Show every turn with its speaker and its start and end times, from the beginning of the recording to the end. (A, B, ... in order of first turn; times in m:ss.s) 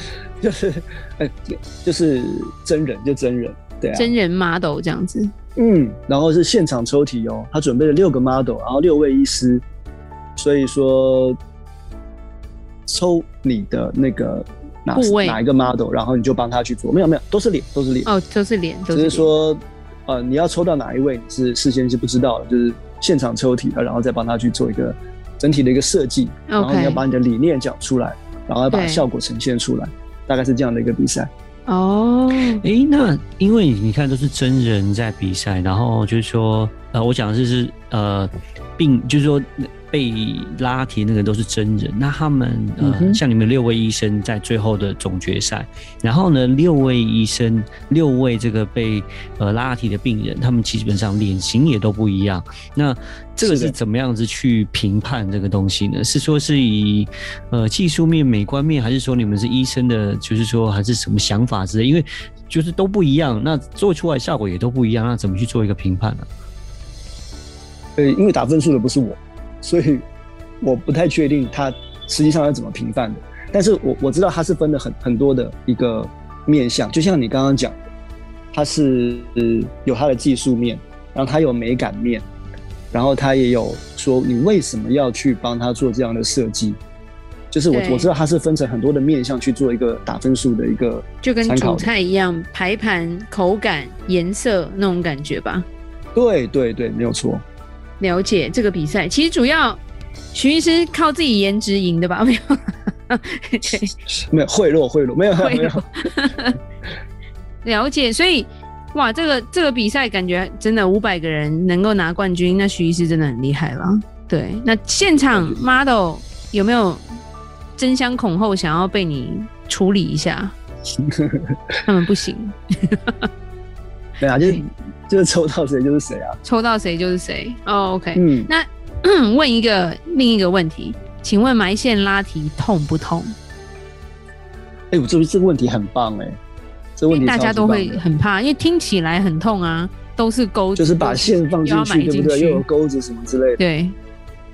0:00.4-0:04.1 A
0:04.0-0:05.3 B
0:05.6-0:09.6 A
0:10.4-0:11.4 A
0:12.9-0:18.1 A
0:15.0-0:15.4 B
0:18.1-0:19.3 B
0:18.9-0:31.3 A
0:26.5-0:27.0 B
0:28.7-0:29.1 B
0:31.7-0:32.6 B
0:32.6-1:06.3 C
0:42.8-0:43.2 A
0:53.4-0:53.8 A
1:08.0-1:10.1 A
1:10.6-1:17.8 A
1:18.5-1:22.3 A
1:22.9-1:26.8 A
1:27.5-1:31.9 A
1:27.7-1:28.1 B
1:31.2-1:35.7 B
1:36.2-1:37.4 A
1:38.0-1:39.8 B
1:40.3-1:43.9 B
1:44.3-1:45.9 A
1:45.4-1:46.6 B
1:47.6-1:57.1 B
1:55.3-1:55.6 A
1:57.8-2:00.6 B
2:01.1-2:01.6 A
2:01.9-2:03.3 B
2:04.2-2:06.4 A
2:04.4-2:04.6 B
2:06.4-2:13.4 B
2:08.2-2:08.5 A
2:14.9-2:16.4 A
2:17.0-2:18.0 A
2:17.1-2:22.6 B
2:20.8-2:23.6 A
2:23.6-2:24.0 B